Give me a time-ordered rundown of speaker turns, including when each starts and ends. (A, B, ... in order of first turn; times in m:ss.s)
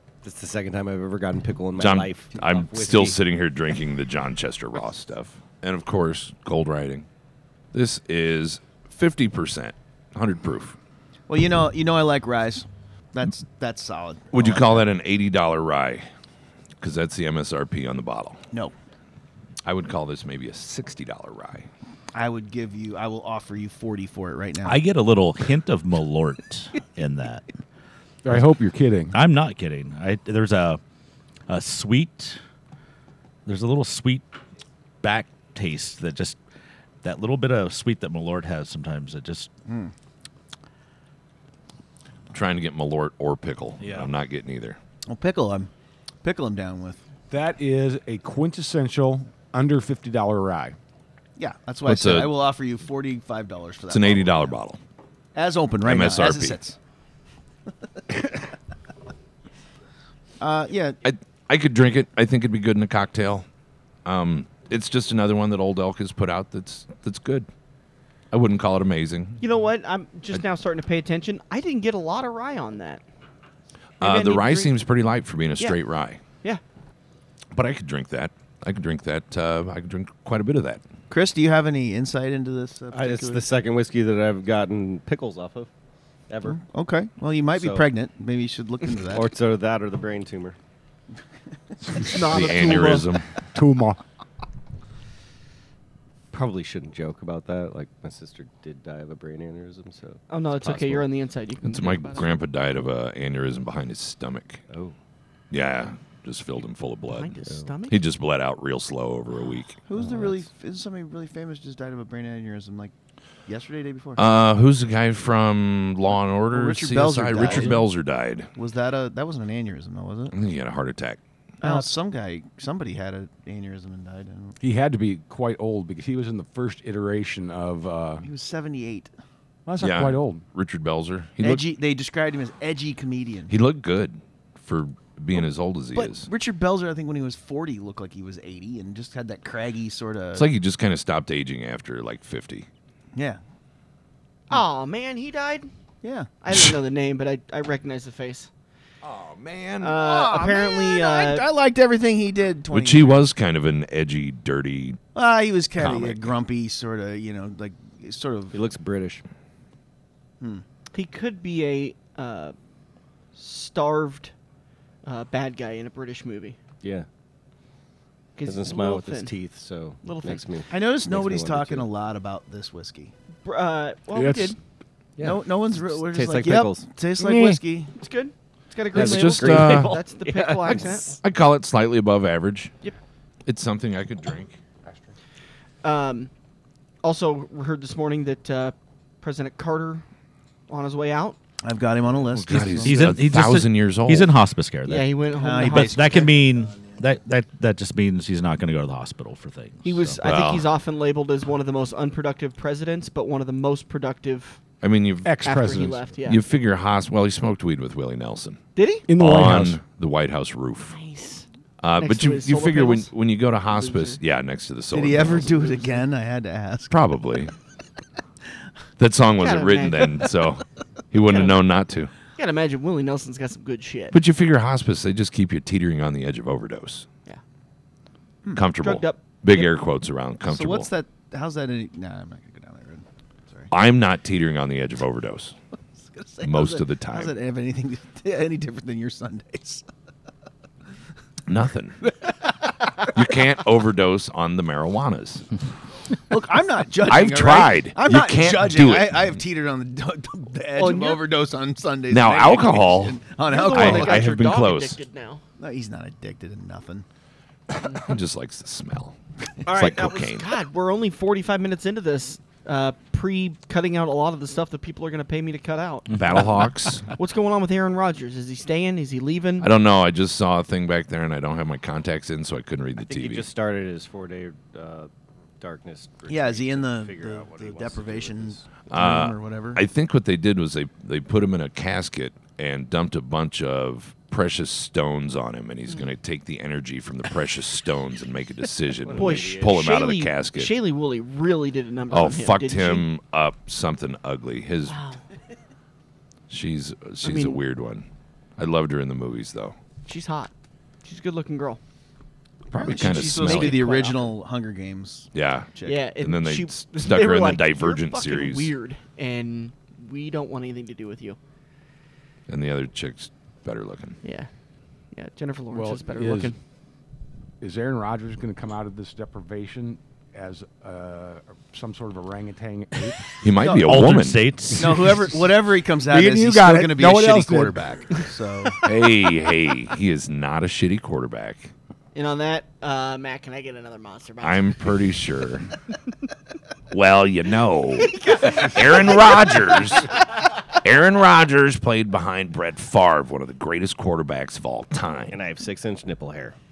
0:00.2-0:03.2 A
0:01.8-0:07.1 B
0:07.7-0:10.8 B
0:11.3-0:14.9 C
0:14.3-0:16.1 B
0:16.8-0:18.4 B
0:19.6-0:21.7 B
0:22.2-0:24.8 C
0:24.6-0:27.5 D
0:28.2-0:29.2 E
0:29.1-0:30.8 D
0:31.5-0:32.4 D
0:33.5-0:34.3 D
0:35.0-0:36.4 D
0:37.0-0:39.5 D
0:39.7-0:39.9 C
0:42.3-0:44.8 B
0:43.8-0:44.1 D
0:45.1-0:45.7 C
0:46.2-0:47.0 C
0:47.3-0:50.8 E
0:51.4-0:54.5 C
0:51.8-0:52.3 B
0:53.9-0:54.8 B
0:55.4-0:56.8 C
0:55.8-0:56.6 B
1:00.4-1:01.0 C
1:01.0-1:03.5 B
1:04.0-1:07.5 B
1:08.3-1:09.4 B
1:09.4-1:13.0 F
1:14.0-1:14.7 F
1:14.0-1:16.2 B
1:17.5-1:20.8 B
1:21.1-1:23.5 C
1:22.9-1:25.7 A
1:26.3-1:26.6 A
1:26.5-1:29.3 C
1:27.6-1:27.9 A
1:29.1-1:30.6 A
1:31.9-1:34.0 E
1:32.1-1:33.1 F
1:32.3-1:33.3 B
1:36.3-1:40.2 A
1:40.3-1:42.3 F
1:40.6-1:41.1 B
1:41.6-1:44.6 B
1:44.7-1:45.0 A
1:45.5-1:47.4 B
1:47.1-1:48.0 F
1:47.9-1:49.8 B
1:49.9-1:52.9 C
1:50.0-1:50.4 A
1:53.5-1:54.2 C
1:54.2-1:58.5 B
1:56.5-1:57.9 C
1:57.4-1:57.7 F
1:58.6-2:00.3 C
2:00.3-2:01.2 B
2:01.6-2:01.9 F
2:01.6-2:04.6 C
2:04.6-2:08.3 E
2:08.2-2:09.1 C
2:09.7-2:10.4 E
2:09.8-2:11.7 B
2:11.4-2:13.5 C
2:13.5-2:16.3 B
2:16.0-2:20.5 C
2:20.3-2:22.7 B
2:23.2-2:23.4 C
2:24.5-2:25.7 F
2:26.0-2:26.3 C
2:26.4-2:28.5 F
2:29.0-2:30.0 B
2:29.8-2:31.4 F
2:30.0-2:33.2 C
2:32.7-2:35.0 B
2:35.2-2:38.6 C
2:35.8-2:36.3 B
2:38.5-2:39.2 A
2:40.9-2:42.6 F
2:43.4-2:44.3 F
2:45.0-2:46.6 F
2:48.4-2:49.3 F
2:48.4-2:51.9 A
2:50.0-2:50.6 F
2:50.7-2:53.1 C
2:53.4-2:54.6 F
2:54.1-2:54.6 E
2:55.2-2:56.9 A
2:55.2-2:57.9 C
2:57.2-2:57.6 E
2:58.0-3:01.1 F
2:58.9-3:01.2 A
2:58.9-3:00.0 B
3:00.7-3:02.7 B
3:03.5-3:04.6 B
3:05.8-3:06.3 F
3:07.0-3:10.0 F
3:10.7-3:11.4 F
3:11.6-3:13.2 C
3:12.4-3:14.3 B
3:12.8-3:20.2 D
3:14.9-3:16.3 F
3:15.4-3:17.0 C
3:19.8-3:24.6 F
3:20.2-3:20.7 B
3:24.8-3:25.4 B
3:25.2-3:26.0 E
3:25.4-3:26.4 F
3:26.2-3:31.0 B
3:28.8-3:29.1 F
3:29.1-3:29.8 E
3:30.9-3:31.4 F
3:31.8-3:35.6 B
3:32.0-3:33.1 F
3:33.7-3:34.2 F
3:34.9-3:36.9 C
3:36.9-3:37.5 B
3:39.0-3:42.1 B
3:39.4-3:40.3 F
3:41.3-3:41.6 F
3:42.4-3:44.2 F
3:44.1-3:47.1 B
3:48.5-3:50.9 B
3:48.8-3:49.7 F
3:50.4-3:53.7 C
3:53.7-3:55.6 B
3:56.1-3:59.8 C
3:56.4-3:57.3 B
4:01.5-4:02.1 B
4:03.0-4:05.5 B
4:06.3-4:14.3 C
4:07.1-4:09.3 B
4:10.8-4:11.2 F
4:12.1-4:15.0 B
4:13.5-4:15.4 F
4:15.6-4:17.1 C
4:17.9-4:20.5 B
4:19.6-4:26.1 F
4:26.1-4:26.4 D
4:26.1-4:27.1 B
4:27.2-4:29.7 F
4:29.6-4:33.5 B
4:33.0-4:38.7 A
4:36.3-4:39.8 C
4:38.9-4:50.7 B
4:49.0-4:49.8 A
4:49.2-4:53.1 F
4:52.1-4:55.0 B
4:54.9-4:55.2 F
4:56.5-4:58.1 B
4:57.2-4:57.6 F
4:58.6-4:59.8 B
5:00.1-5:00.5 F
5:01.0-5:01.8 F
5:02.7-5:06.0 C
5:02.7-5:03.8 B
5:02.8-5:04.3 F
5:05.3-5:08.7 B
5:05.8-5:11.4 F
5:12.5-5:14.2 B
5:14.2-5:14.5 F
5:15.1-5:16.6 F
5:15.7-5:16.5 E
5:17.6-5:23.2 E
5:23.4-5:24.5 B
5:23.6-5:24.0 C
5:23.8-5:25.1 D
5:24.8-5:28.8 C
5:24.9-5:25.3 E
5:26.0-5:28.2 E
5:28.8-5:31.7 B
5:32.1-5:34.8 F
5:34.4-5:35.7 B
5:36.9-5:40.3 B
5:38.0-5:39.8 F
5:40.8-5:45.4 B
5:45.3-5:46.6 A